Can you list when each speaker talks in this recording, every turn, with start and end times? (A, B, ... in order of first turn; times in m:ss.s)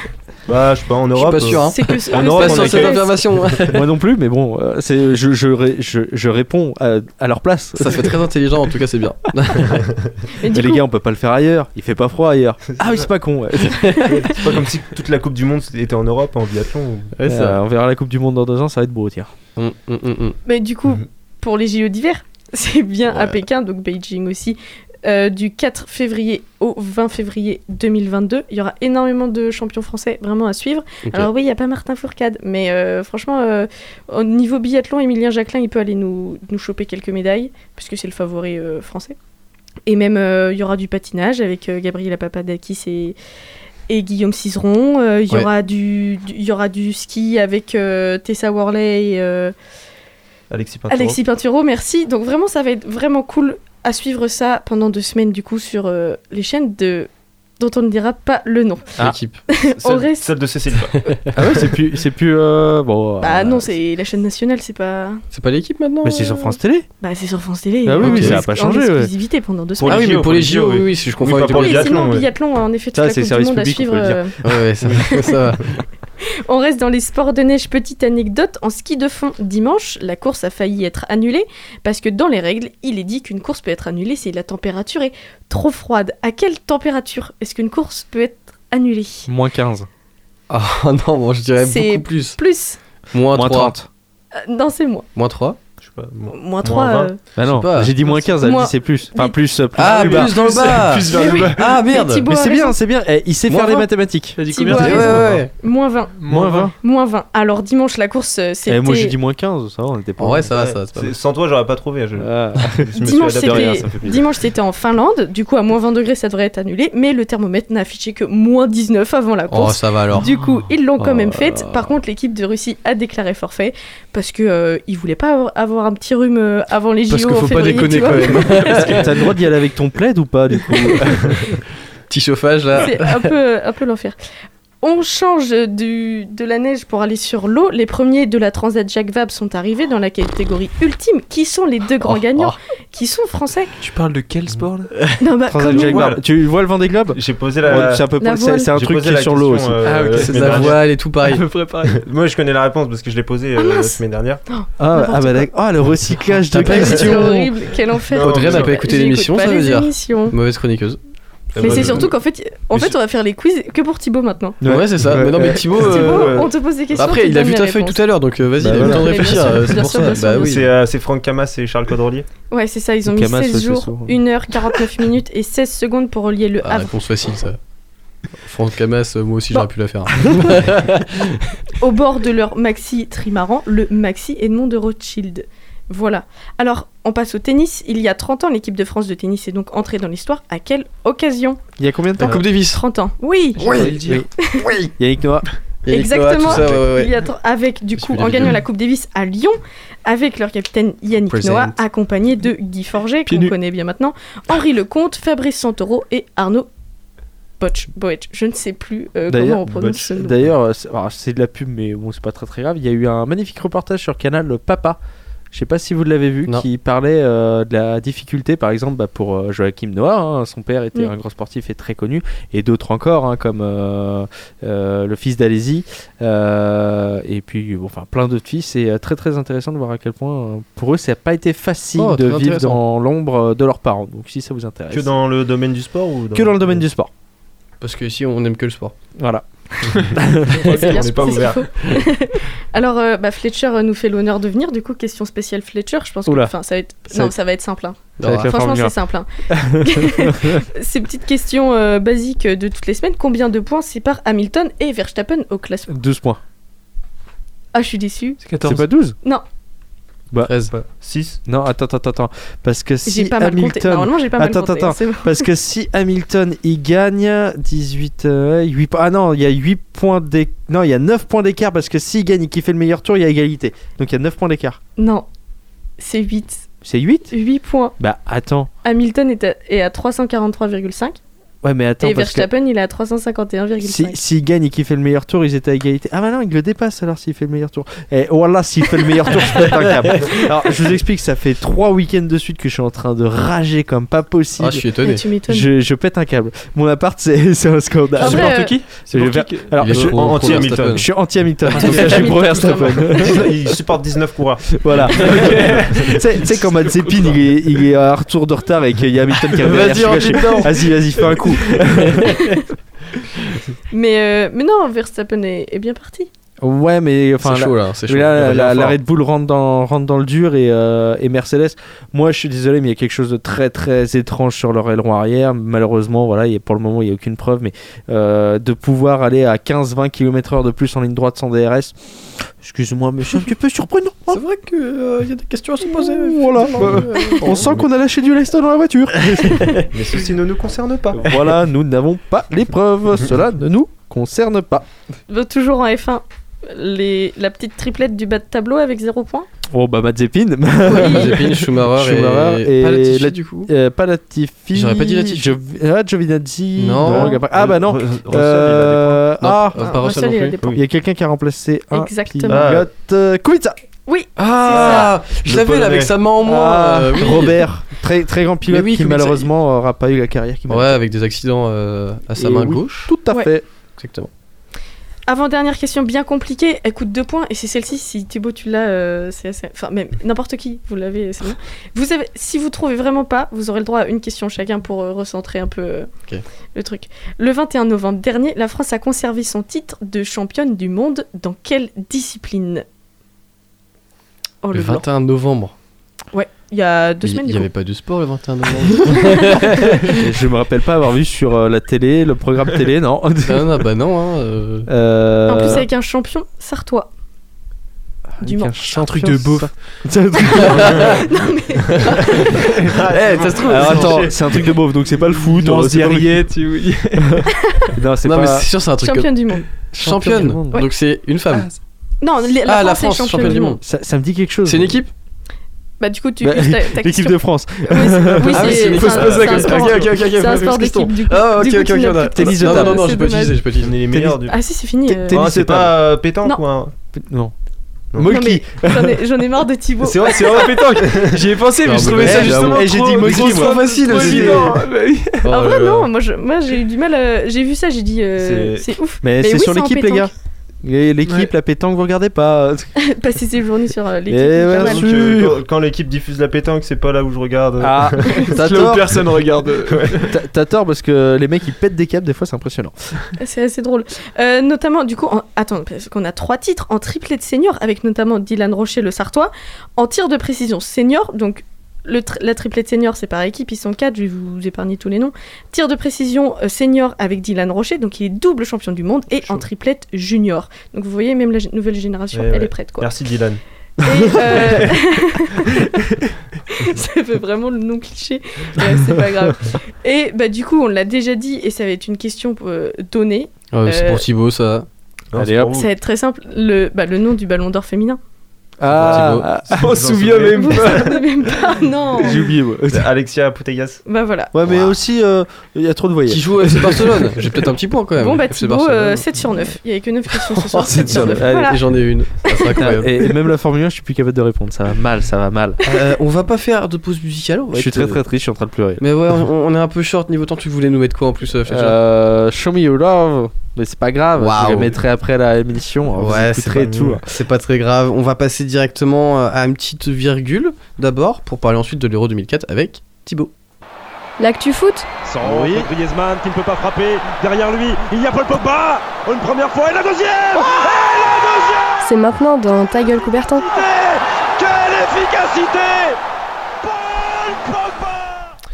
0:00.4-0:03.7 A
0:01.1-0:03.8 B
0:01.4-0:03.1 C
0:03.7-0:08.2 D
0:07.8-0:09.8 B
0:09.7-0:10.1 A
0:10.4-0:10.8 C
0:10.5-0:14.1 D
0:12.8-0:13.1 A
0:13.7-0:14.1 B
0:14.2-0:17.1 A
0:17.2-0:17.6 B
0:17.2-0:19.3 D
0:19.6-0:20.4 B
0:20.4-0:39.2 C
0:23.1-0:23.4 B
0:39.8-0:43.2 C
0:43.9-0:49.5 C
0:50.5-0:51.2 A
0:50.9-0:58.9 C
0:59.0-0:59.4 B
0:59.5-1:00.3 C
0:59.7-1:01.5 A
1:01.0-1:01.3 B
1:01.3-1:03.7 D
1:03.2-1:05.2 C
1:05.3-1:06.6 B
1:06.0-1:06.9 D
1:07.0-1:10.1 C
1:07.8-1:09.1 D
1:08.0-1:08.4 B
1:09.8-1:12.3 A
1:09.8-1:12.0 B
1:11.4-1:14.3 C
1:12.9-1:14.6 D
1:14.4-1:15.7 B
1:14.9-1:15.4 C
1:16.4-1:29.3 C
1:29.3-1:29.9 D
1:30.5-1:32.4 B
1:31.6-1:32.8 C
1:33.1-1:33.8 B
1:33.3-1:33.9 D
1:34.3-1:35.1 C
1:35.2-1:35.6 B
1:35.8-1:37.1 A
1:36.3-1:37.2 C
1:37.4-1:40.4 D
1:37.5-1:38.0 B
1:38.0-1:39.4 C
1:39.8-1:42.3 B
1:39.8-1:41.8 E
1:41.1-1:42.7 C
1:42.3-1:44.4 D
1:43.5-1:43.9 B
1:44.4-1:45.5 E
1:44.5-1:46.1 C
1:44.7-1:45.5 B
1:46.2-1:46.7 E
1:46.3-1:46.7 D
1:46.8-1:49.1 C
1:48.7-1:50.5 D
1:50.2-1:51.1 B
1:50.5-1:54.2 A
1:52.2-1:54.2 D
1:53.0-2:09.2 C
1:59.5-2:00.3 B
2:01.0-2:01.8 D
2:07.1-2:09.1 B
2:08.7-2:11.6 D
2:12.1-2:13.3 B
2:12.8-2:14.1 C
2:14.8-2:23.7 C
2:22.0-2:22.6 B
2:23.8-2:24.9 E
2:25.2-2:26.1 C
2:25.5-2:30.4 D
2:25.6-2:26.2 A
2:27.1-2:28.1 A
2:28.2-2:28.7 C
2:28.7-2:30.8 A
2:29.8-2:32.0 E
2:30.2-2:31.4 B
2:31.9-2:34.4 A
2:33.6-2:35.5 C
2:34.8-2:37.5 D
2:36.5-2:37.4 B
2:36.6-2:40.3 C
2:38.1-2:38.8 A
2:38.1-2:41.0 B
2:41.5-2:42.1 A
2:41.5-2:42.1 B
2:41.6-2:44.6 C
2:44.6-2:45.7 D
2:44.6-2:46.4 B
2:45.3-2:46.5 A
2:45.8-2:48.0 C
2:46.9-2:50.7 B
2:48.6-2:49.7 D
2:48.7-2:50.6 C
2:50.3-2:52.2 A
2:52.5-2:56.9 C
2:53.0-2:54.2 D
2:56.6-2:57.6 B
2:58.4-3:01.3 B
3:01.8-3:11.6 C
3:11.8-3:12.4 D
3:12.2-3:12.8 B
3:12.7-3:13.8 C
3:13.6-3:14.2 E
3:13.6-3:13.9 B
3:13.6-3:14.3 D
3:14.4-3:14.6 C
3:14.8-3:15.5 D
3:15.8-3:17.1 B
3:15.9-3:26.7 C
3:18.0-3:18.6 B
3:21.3-3:21.8 B
3:23.3-3:23.5 E
3:27.6-3:30.4 C
3:29.3-3:35.0 D
3:29.7-3:30.1 A
3:35.5-3:55.1 D
3:52.0-3:52.8 B
3:54.9-3:56.8 A
3:56.3-3:57.1 D
3:57.8-3:58.9 B
3:59.2-4:00.7 D
4:00.6-4:01.7 A
4:00.7-4:15.9 C
4:06.2-4:06.5 D
4:08.2-4:08.5 B
4:08.2-4:08.9 D
4:09.5-4:10.6 D
4:15.9-4:16.4 D
4:17.7-4:18.4 C
4:18.4-4:18.8 E
4:18.6-4:19.2 D
4:20.4-4:20.7 B
4:20.7-4:21.4 A
4:21.4-4:34.8 D
4:23.0-4:25.4 C
4:35.0-4:35.2 C
4:36.0-4:36.7 C
4:36.8-4:37.3 D
4:37.3-4:37.9 C
4:38.0-4:38.7 D
4:38.8-4:41.2 C
4:41.6-4:42.5 D
4:42.0-4:44.2 C
4:43.8-4:54.8 D
4:54.6-4:55.2 B
4:55.0-4:55.7 C
4:55.5-5:03.5 D
4:58.2-4:59.9 E
4:58.2-4:58.8 C
4:59.8-5:01.1 B
4:59.9-5:01.0 A
5:01.6-5:02.4 B
5:01.9-5:03.2 C
5:03.2-5:05.5 A
5:04.7-5:12.4 D
5:05.2-5:06.2 E
5:09.6-5:12.4 B
5:13.9-5:16.3 C
5:16.6-5:34.4 D
5:17.4-5:19.0 B
5:34.3-5:37.9 B
5:36.0-5:39.8 D
5:39.9-5:41.2 A
5:41.2-5:44.9 D
5:45.3-5:49.5 C
5:49.7-5:59.8 D
5:50.9-5:51.3 C
5:50.9-5:53.7 B
5:54.7-5:55.6 B
5:56.8-5:57.4 B
5:57.5-5:59.2 A
5:59.4-6:00.6 B
5:59.8-6:00.7 C
6:00.7-6:03.8 D
6:01.9-6:02.7 C
6:02.5-6:02.9 A
6:04.1-6:05.1 C
6:04.4-6:07.7 B
6:04.7-6:06.1 A
6:06.4-6:11.0 D
6:08.6-6:09.5 B
6:10.7-6:13.1 B
6:12.4-6:13.6 D
6:14.0-6:14.3 B
6:15.3-6:26.1 C
6:26.7-6:32.8 C
6:34.6-6:35.0 C
6:34.7-6:35.7 B
6:36.3-6:37.7 C
6:37.2-6:40.0 B
6:40.1-6:43.8 D
6:43.4-6:44.9 B
6:44.9-6:45.8 D
6:45.5-6:47.1 C
6:48.4-6:51.2 D
6:48.4-6:48.8 C
6:49.0-6:49.7 E
6:50.5-6:52.6 C
6:50.8-6:51.1 B
6:50.9-6:51.2 A
6:52.8-6:54.7 A
6:53.1-6:54.2 B
6:53.6-6:56.5 D
6:55.4-6:57.4 E
6:57.3-6:58.7 D
6:58.2-6:59.3 B
6:59.0-6:59.6 C
6:59.9-7:01.7 B
6:59.9-7:00.8 D
7:02.2-7:03.8 C
7:02.6-7:03.8 B
7:03.4-7:05.0 D
7:04.6-7:05.1 B
7:06.0-7:13.6 C
7:06.4-7:09.0 D
7:08.5-7:14.0 B
7:09.0-7:09.9 A
7:09.2-7:10.3 E
7:12.3-7:13.2 D
7:13.8-7:14.6 A
7:14.1-7:14.4 D
7:14.5-7:15.4 C
7:15.1-7:16.0 D
7:15.3-7:16.9 A
7:17.2-7:17.5 D
7:18.1-7:19.2 D
7:18.2-7:20.8 C
7:20.0-7:25.5 E
7:21.0-7:21.3 A
7:21.8-7:24.7 B
7:22.2-7:24.7 D
7:24.1-7:24.8 A
7:25.4-7:26.1 B
7:25.5-7:30.3 C
7:28.4-7:28.8 A
7:29.2-7:30.3 D
7:30.8-7:32.9 D
7:33.0-7:35.1 C
7:34.3-7:35.6 D
7:34.7-7:38.5 A
7:37.8-7:39.2 D
7:38.5-7:40.3 E
7:39.9-7:40.3 A
7:40.3-7:43.2 D
7:43.4-8:03.1 C
8:02.3-8:03.6 A
8:04.0-8:06.0 C
8:04.4-8:04.9 A
8:06.7-8:14.2 C
8:13.7-8:14.8 B
8:15.3-8:15.9 A
8:15.4-8:15.8 D
8:15.7-8:18.2 C
8:18.8-8:20.0 D
8:18.9-8:21.0 A
8:18.9-8:19.5 B
8:19.7-8:21.2 E
8:20.5-8:22.4 C
8:22.2-8:23.1 D
8:22.9-8:24.0 A
8:24.0-8:24.5 C
8:24.5-8:27.7 D
8:24.7-8:25.0 B
8:26.3-8:29.2 B
8:28.2-8:31.8 C
8:30.5-8:33.2 B
8:30.8-8:31.8 D
8:32.5-8:32.7 C
8:32.8-8:35.8 D
8:35.8-8:38.2 B
8:37.7-8:39.0 D
8:39.0-8:42.0 B
8:41.7-8:47.2 D
8:44.4-8:45.0 B
8:46.1-8:53.5 B
8:46.8-8:47.2 A
8:54.4-8:55.1 F
8:55.4-8:55.9 A
8:55.4-9:01.9 G
9:02.0-9:03.8 F
9:03.8-9:06.1 G
9:06.8-9:08.1 G